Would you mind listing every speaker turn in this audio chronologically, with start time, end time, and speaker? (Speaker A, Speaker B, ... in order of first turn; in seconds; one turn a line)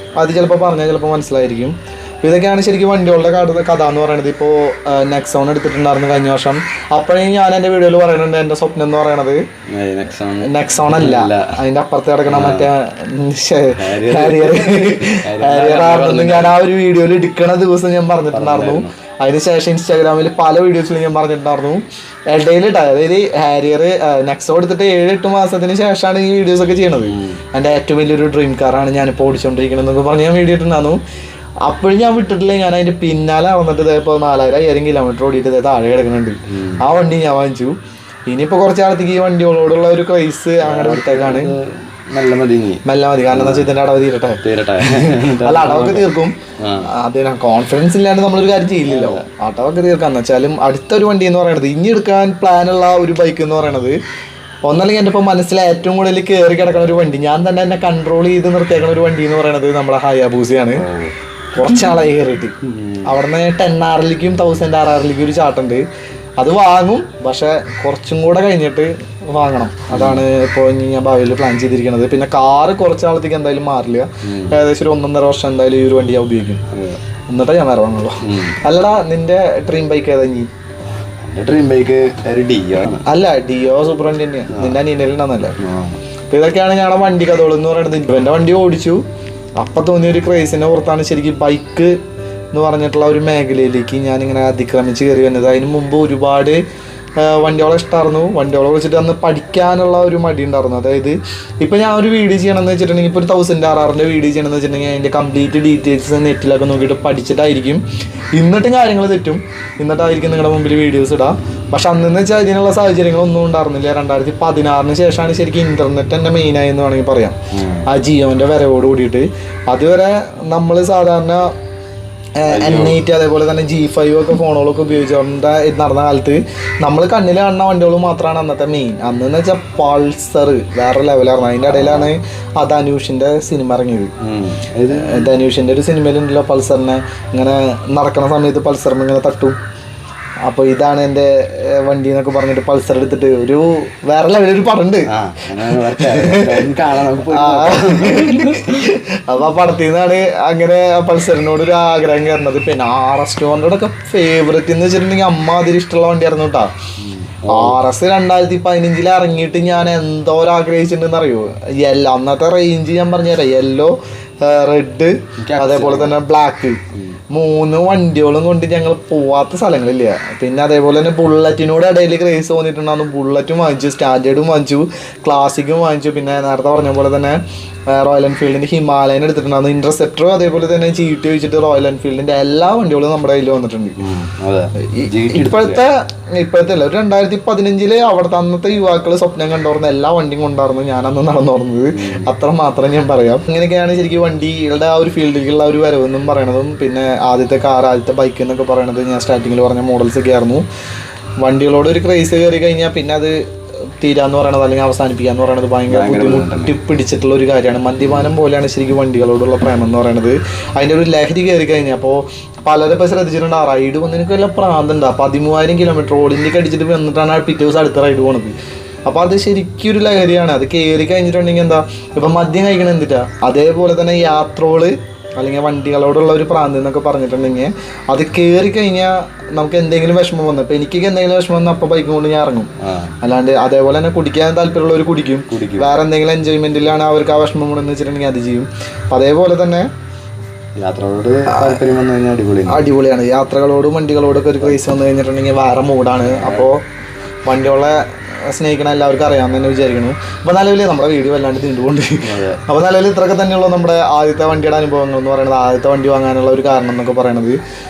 Speaker A: 0.2-9.4
Speaker B: 9.7-11.6
Speaker A: 10.4-31.0
Speaker B: 12.3-12.7
Speaker B: 13.8-16.6
Speaker B: 18.3-18.9
Speaker B: 27.0-27.4
Speaker A: 31.6-37.7
Speaker B: 36.5-36.8
Speaker A: 38.3-41.5
Speaker B: 40.6-43.8
Speaker A: 42.9-46.4
Speaker B: 44.4-46.1
Speaker B: 46.6-46.9
Speaker A: 46.9-54.0
Speaker B: 48.9-49.2
Speaker A: 54.7-60.8
Speaker B: 60.8-61.1
Speaker A: 61.5-65.8
Speaker B: 62.6-63.2
Speaker A: 66.4-76.6
Speaker B: 69.9-70.3
Speaker B: 74.2-74.6
Speaker B: 76.7-77.0
Speaker A: 77.3-80.5
Speaker B: 78.2-78.6
Speaker B: 81.2-83.1
Speaker A: 83.0-85.6
Speaker B: 84.5-84.8
Speaker B: 85.6-86.0
Speaker A: 86.3-89.0
Speaker A: 89.6-91.9
Speaker A: 92.5-96.6
Speaker A: 97.2-107.8
Speaker A: 108.3-121.5
Speaker B: 117.5-117.9
Speaker A: 122.4-134.1
Speaker B: 122.5-123.0
Speaker B: 131.7-132.1
Speaker B: 134.2-135.3
Speaker A: 134.9-139.6
Speaker A: 140.4-145.1
Speaker B: 145.1-148.9
Speaker A: 145.7-146.7
Speaker A: 147.2-156.7
Speaker B: 157.0-157.8
Speaker A: 157.5-184.0
Speaker B: 165.4-166.2
Speaker B: 184.0-185.8
Speaker A: 184.8-200.6
Speaker B: 191.9-192.3
Speaker A: 201.4-203.3
Speaker A: 204.0-218.6
Speaker B: 205.9-206.7
Speaker A: 219.1-239.9
Speaker B: 232.8-233.2
Speaker B: 235.5-236.0
Speaker B: 240.8-242.8
Speaker A: 241.5-241.8
Speaker A: 242.7-246.8
Speaker B: 246.2-246.7
Speaker A: 247.4-257.6
Speaker B: 252.2-252.6